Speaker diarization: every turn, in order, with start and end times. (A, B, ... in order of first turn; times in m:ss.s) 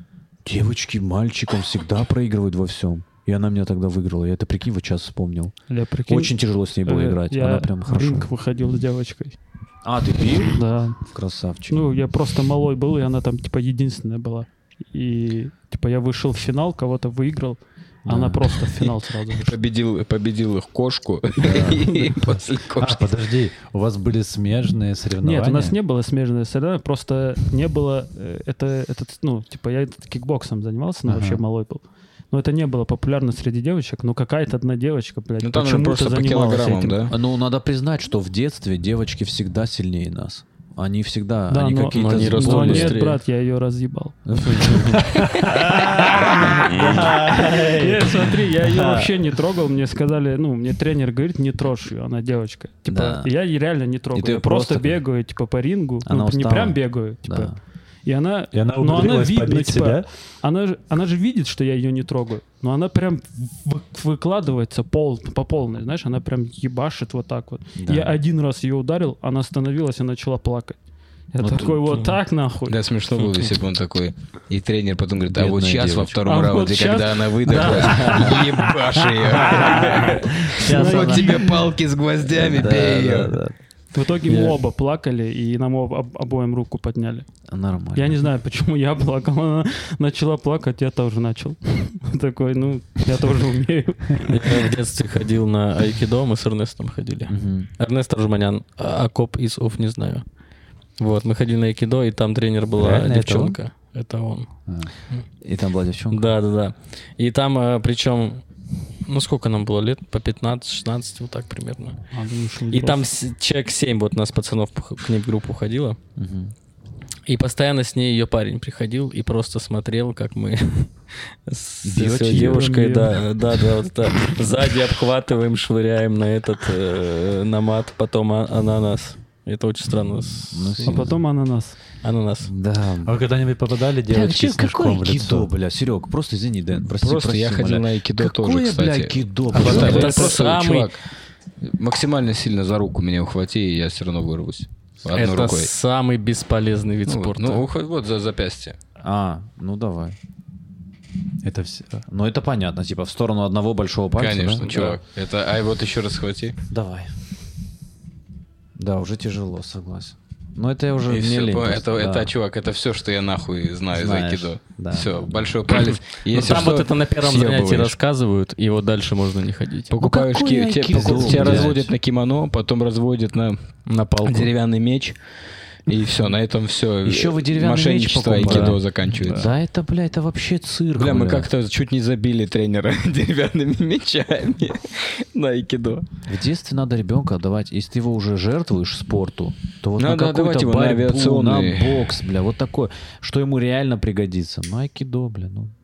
0:00.4-0:05.5 A
0:05.7-0:09.4 B
0:06.1-0:08.3 A
0:09.8-0:11.8 A
0:10.5-0:11.0 B
0:11.7-0:19.6 B
0:18.1-0:18.5 A
0:19.3-0:23.1 C
0:21.4-0:22.0 A
0:22.8-0:25.8 D
0:25.2-0:37.0 B
0:31.1-0:31.4 D
0:35.4-0:37.2 C
0:37.1-0:43.0 A
0:41.5-0:57.5 B
0:42.0-0:43.2 E
0:44.3-0:49.2 A
0:52.9-0:53.3 A
0:54.1-0:55.0 A
0:56.0-0:57.6 A
0:58.0-1:10.8 B
0:58.5-1:00.1 D
1:07.8-1:08.2 A
1:11.3-1:12.8 B
1:11.4-1:11.8 A
1:12.7-1:23.4 C
1:15.3-1:16.2 A
1:16.2-1:18.6 B
1:17.5-1:21.6 A
1:19.5-1:21.6 B
1:22.3-1:23.6 A
1:23.9-1:27.3 B
1:24.3-1:24.6 E
1:27.5-1:28.2 A
1:28.0-1:34.6 B
1:34.3-1:40.2 E
1:37.3-1:37.7 A
1:41.0-1:44.5 E
1:42.8-1:43.6 D
1:45.4-1:46.3 A
1:46.1-1:48.4 E
1:49.0-1:52.0 E
1:52.1-1:53.0 B
1:52.7-1:56.0 E
1:56.2-1:56.5 A
1:57.3-2:11.1 E
2:01.8-2:02.7 A
2:02.4-2:03.2 B
2:10.4-2:11.2 A
2:10.8-2:11.8 B
2:12.0-2:12.5 E
2:12.4-2:13.2 A
2:13.0-2:15.5 D
2:14.1-2:20.4 A
2:16.9-2:21.0 C
2:19.6-2:20.9 E
2:21.6-2:25.7 C
2:25.1-2:27.7 E
2:27.1-2:28.8 C
2:29.0-2:30.2 A
2:31.4-2:32.0 D
2:32.1-2:35.0 A
2:34.2-2:36.6 C
2:36.7-2:37.1 A
2:38.8-2:42.3 A
2:41.1-2:48.0 C
2:43.9-2:45.6 A
2:46.3-2:49.9 E
2:49.9-2:53.7 C
2:50.0-2:51.9 A
2:51.0-2:51.8 D
2:53.9-2:54.5 E
2:54.2-2:55.2 C
2:55.9-2:59.5 C
2:57.0-3:01.5 A
3:01.0-3:06.1 C
3:06.3-3:15.7 A
3:10.0-3:12.1 C